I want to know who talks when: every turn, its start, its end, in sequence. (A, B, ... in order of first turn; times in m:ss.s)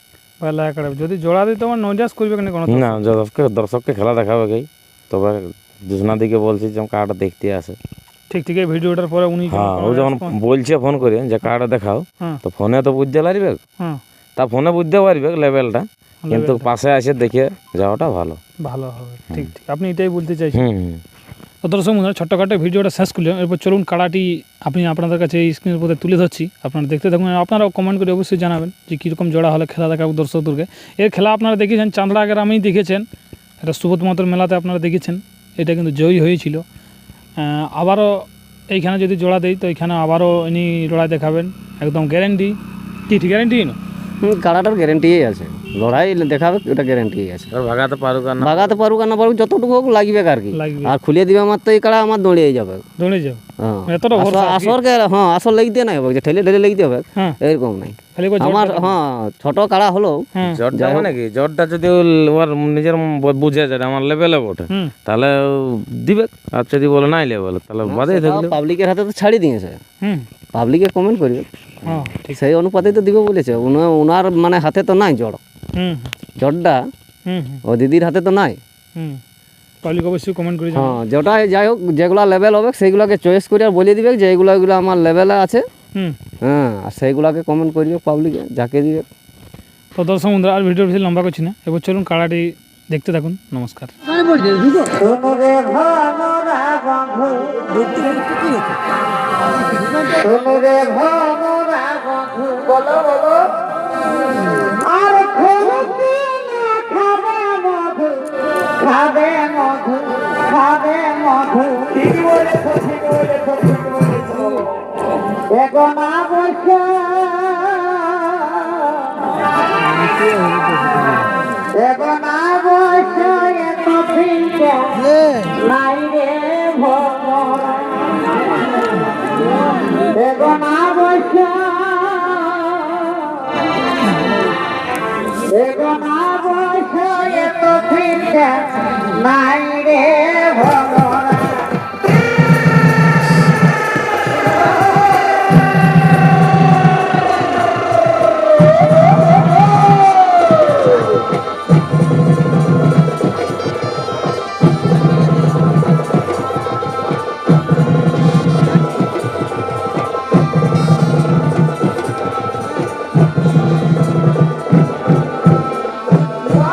0:00.4-0:03.1 A
0:02.7-0:07.8 B
0:08.3-0:10.4 A
0:09.5-0:13.6 B
0:14.4-0:18.4 B
0:16.3-0:16.7 A
0:18.6-0:20.7 A
0:20.5-0:21.0 B
0:21.6-0:33.0 A
0:33.6-0:36.6 A
0:37.4-0:42.6 A
0:43.1-0:43.8 A
0:44.2-0:47.5 C
0:47.5-0:48.8 B
0:48.4-0:52.8 C
0:50.5-0:51.0 A
0:53.0-0:54.8 A
0:53.6-1:01.1 C
0:58.2-0:58.9 A
1:00.4-1:00.6 A
1:00.5-1:08.6 B
1:07.8-1:09.8 C
1:10.5-1:15.4 C
1:11.9-1:12.4 A
1:15.8-1:16.1 A
1:16.4-1:16.8 C
1:17.3-1:17.6 A
1:17.7-1:18.6 C
1:19.8-1:21.0 A
1:20.7-1:25.6 C
1:26.4-1:29.0 C
1:30.0-1:33.9 A
1:55.6-1:57.1 D
2:02.0-2:05.0 D
2:05.7-2:07.6 D
2:10.8-2:11.8 D
2:16.1-2:18.7 D
2:19.2-2:21.4 D